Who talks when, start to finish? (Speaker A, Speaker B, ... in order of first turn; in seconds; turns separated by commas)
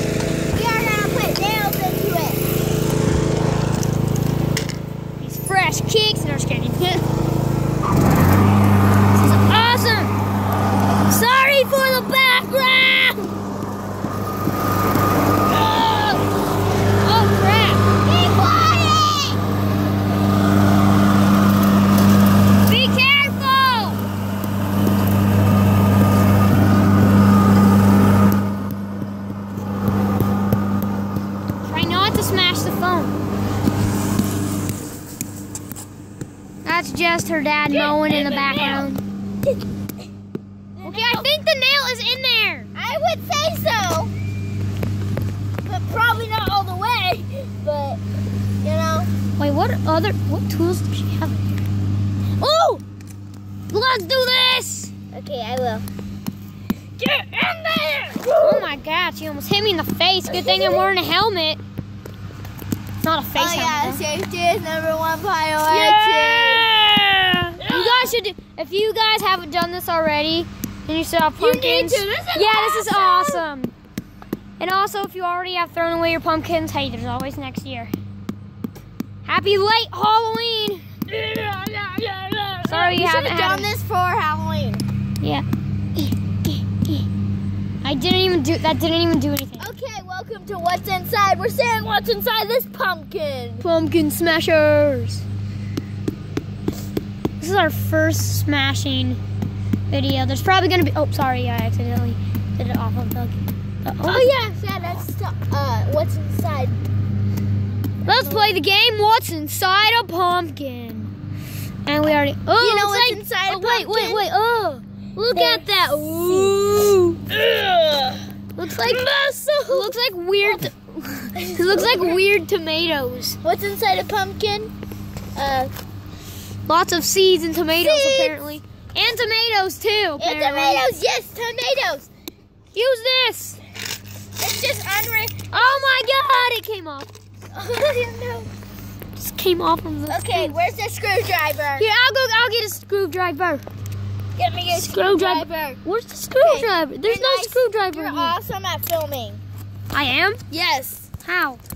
Speaker A: 0.5-2.4, Speaker B: 5.2-7.0, Speaker B: 9.1-10.1, Speaker B: 11.1-13.3, Speaker B: 15.5-16.2, Speaker B: 17.0-17.8, Speaker A: 18.0-19.4, Speaker B: 22.6-24.0, Speaker B: 31.6-33.1, Speaker B: 36.6-39.0, Speaker A: 37.7-38.9, Speaker A: 40.8-41.3, Speaker B: 40.8-42.7, Speaker A: 42.7-44.1, Speaker A: 45.6-48.0, Speaker A: 48.6-49.1, Speaker B: 49.4-51.6, Speaker B: 52.4-52.8, Speaker B: 53.7-54.9, Speaker A: 55.1-55.8, Speaker A: 57.0-58.7, Speaker B: 58.4-61.6, Speaker A: 60.3-60.9, Speaker B: 63.0-64.0, Speaker A: 63.3-66.7, Speaker B: 65.6-73.7, Speaker A: 67.6-68.1, Speaker A: 71.4-73.4, Speaker B: 74.6-77.9, Speaker B: 79.2-80.9, Speaker A: 81.1-84.8, Speaker B: 82.6-83.7, Speaker B: 85.2-87.0, Speaker B: 87.8-89.7, Speaker A: 89.6-93.7, Speaker B: 93.6-95.2, Speaker B: 97.4-99.2, Speaker B: 99.9-104.3, Speaker A: 104.0-106.8, Speaker A: 108.0-108.6, Speaker B: 108.0-111.1, Speaker B: 111.8-117.2, Speaker A: 112.6-114.2, Speaker A: 115.3-115.7, Speaker A: 116.2-116.5, Speaker A: 117.3-119.9, Speaker B: 118.5-119.0, Speaker B: 119.7-123.4, Speaker A: 121.4-122.2, Speaker A: 123.4-124.7, Speaker A: 125.3-125.7, Speaker B: 126.7-130.8, Speaker A: 127.7-128.4, Speaker A: 130.2-132.1, Speaker B: 132.7-133.6, Speaker A: 134.4-135.8, Speaker B: 135.5-137.1, Speaker A: 137.5-138.5, Speaker B: 139.2-140.5, Speaker A: 140.1-141.8, Speaker B: 141.8-143.6, Speaker A: 144.3-145.8, Speaker B: 144.7-148.3, Speaker A: 146.4-149.4, Speaker B: 149.9-150.4, Speaker A: 150.5-151.1, Speaker B: 151.2-151.6